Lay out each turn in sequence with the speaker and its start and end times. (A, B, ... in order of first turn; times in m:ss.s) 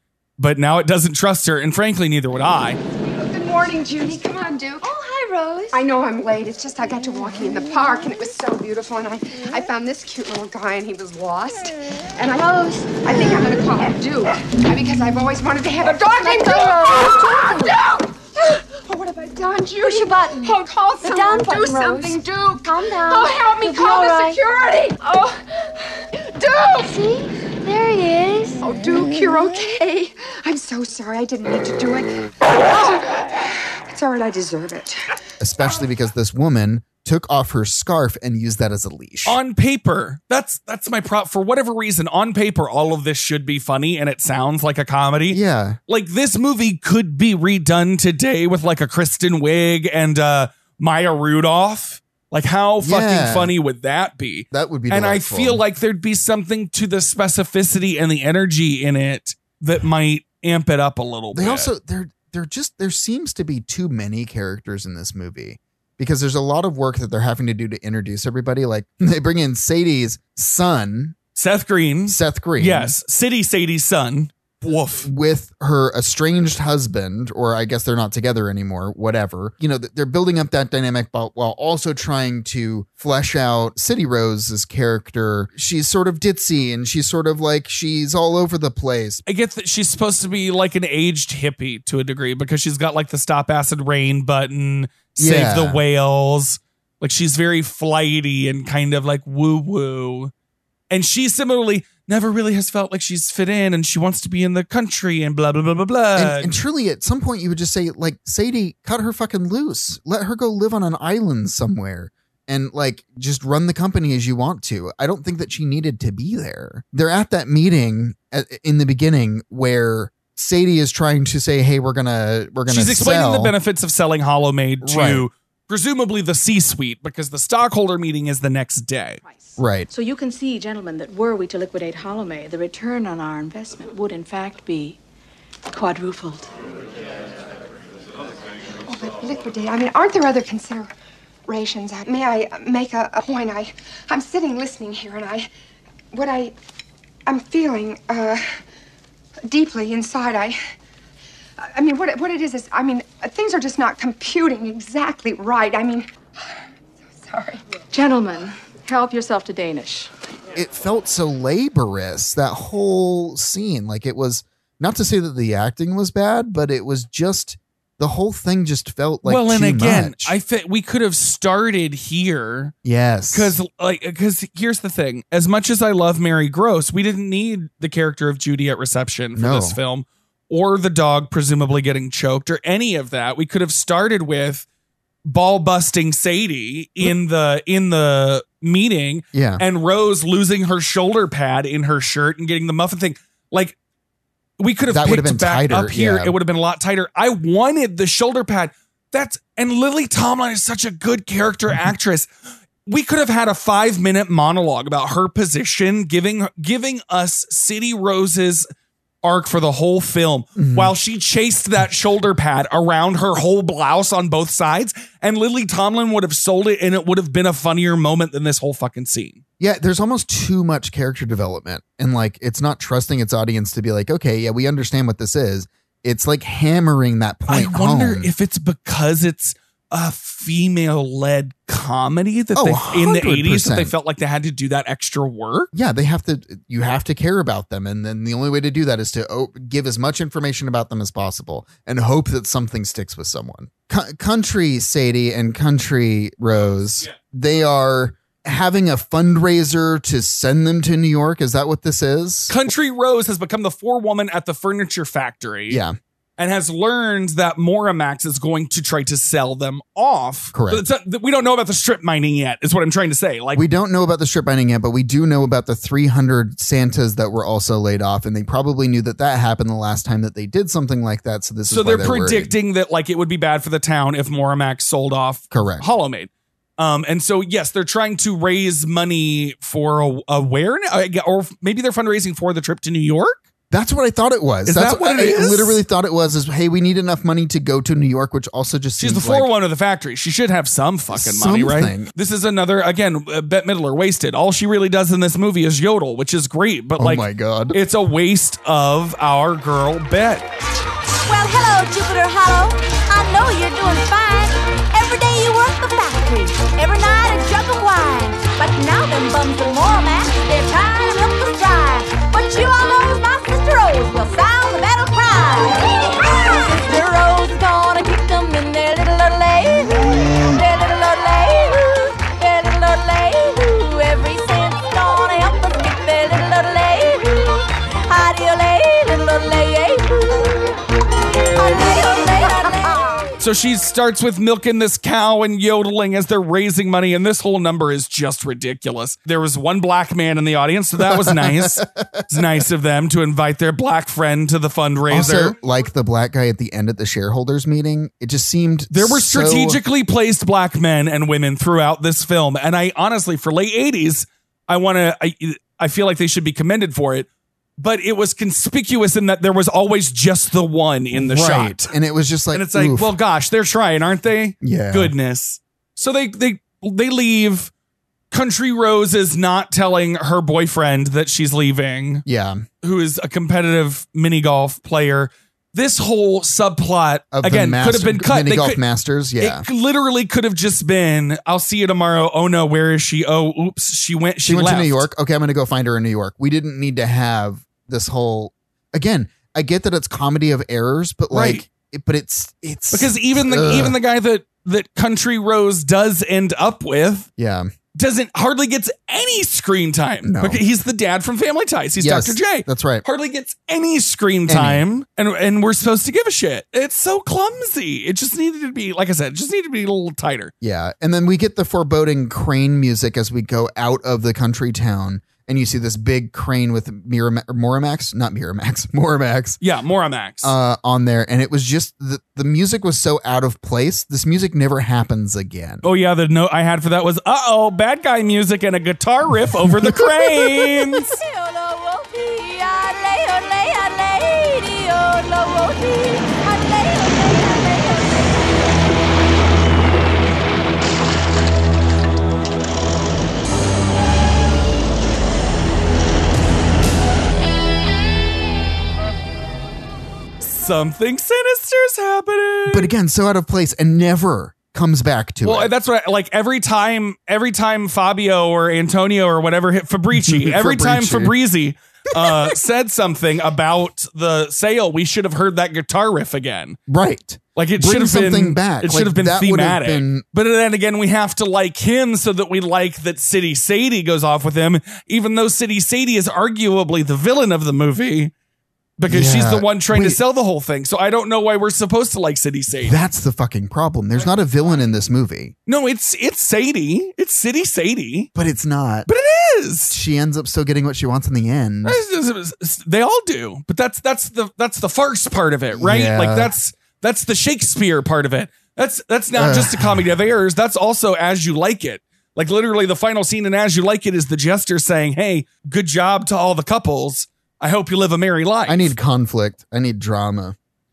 0:00.4-0:02.8 A
0:03.1-0:04.9 B
0:05.7-0:25.3 B
0:16.3-0:17.7 C
0:19.9-0:20.5 C
0:21.2-0:22.2 C
0:22.8-0:24.3 C
0:26.4-0:27.0 B
0:27.7-0:28.6 C
0:28.6-0:33.3 B
0:33.9-0:35.0 B
0:35.4-0:39.4 D
0:39.2-1:01.7 A
0:45.3-0:45.8 D
0:52.8-0:53.5 D
0:54.5-0:55.6 D
1:01.3-1:11.2 D
1:11.4-1:15.1 A
1:12.1-1:12.9 D
1:15.0-1:29.2 D
1:29.2-1:40.3 A
1:35.2-1:35.8 D
1:40.9-1:46.6 A
1:46.2-2:03.5 D
2:02.7-2:09.2 A
2:04.8-2:05.2 D
2:09.2-2:15.0 E
2:09.6-2:09.9 D
2:15.7-2:16.5 E
2:18.8-2:20.9 B
2:21.5-2:25.5 B
2:26.1-2:26.5 B
2:27.2-2:28.4 B
2:29.4-2:30.6 B
2:31.6-2:36.1 B
2:37.2-2:37.6 B
2:37.9-2:40.1 E
2:40.5-2:50.4 D
2:49.2-2:52.7 A
2:52.8-2:53.6 D
2:53.3-3:04.6 A
2:59.3-2:59.8 D
3:05.2-3:13.8 A
3:09.3-3:09.6 D
3:14.6-3:22.3 A
3:14.9-3:16.4 D
3:22.8-3:28.7 A
3:29.2-3:39.4 A
3:30.6-3:30.9 D
3:39.6-3:48.3 D
3:47.5-3:55.7 A
3:52.6-3:53.9 D
3:55.7-4:12.6 D
4:12.5-4:15.8 A
4:15.7-4:16.0 D
4:16.4-4:23.6 A
4:20.5-4:20.8 D
4:23.5-4:32.5 D
4:31.7-4:43.4 A
4:35.5-4:35.9 D
4:43.7-4:49.5 D
4:44.6-4:45.8 A
4:49.0-5:00.4 A
4:51.1-4:52.1 D
4:57.0-4:57.8 D
5:01.2-5:27.5 F
5:28.1-5:30.6 F
5:31.5-5:33.3 F
5:33.4-5:45.6 A
5:41.0-5:42.4 D
5:45.1-5:49.8 D
5:48.9-5:57.3 A
5:57.8-6:01.9 A
6:01.1-6:03.1 D
6:02.5-6:07.7 A
6:04.6-6:05.1 D
6:08.3-6:12.2 A
6:12.2-6:12.6 D
6:12.8-6:18.8 A
6:17.3-6:19.6 D
6:19.4-6:25.1 A
6:24.4-6:34.0 D
6:31.3-6:31.6 A
6:32.9-6:37.3 A
6:37.4-6:37.7 D
6:37.9-6:50.5 A
6:40.2-6:40.6 D
6:42.0-6:43.0 D
6:44.5-6:44.8 D
6:50.6-6:59.6 D
6:59.6-7:00.5 A
7:00.4-7:05.8 D
7:05.8-7:11.2 A
7:09.6-7:10.7 D
7:11.1-7:18.7 F
7:30.4-7:32.9 A
7:32.7-7:35.7 D
7:35.4-7:46.8 A
7:40.1-7:41.3 D
7:42.2-7:42.5 D
7:46.9-7:50.2 D
7:47.6-7:58.3 A
7:59.0-8:03.0 A
7:59.1-8:00.2 D
8:02.8-8:05.5 D
8:05.6-8:08.3 A
8:08.3-8:09.1 D
8:09.1-8:10.0 A
8:09.9-8:12.0 D
8:11.8-8:28.9 A
8:15.7-8:16.5 D
8:19.3-8:20.2 D
8:28.7-8:30.6 D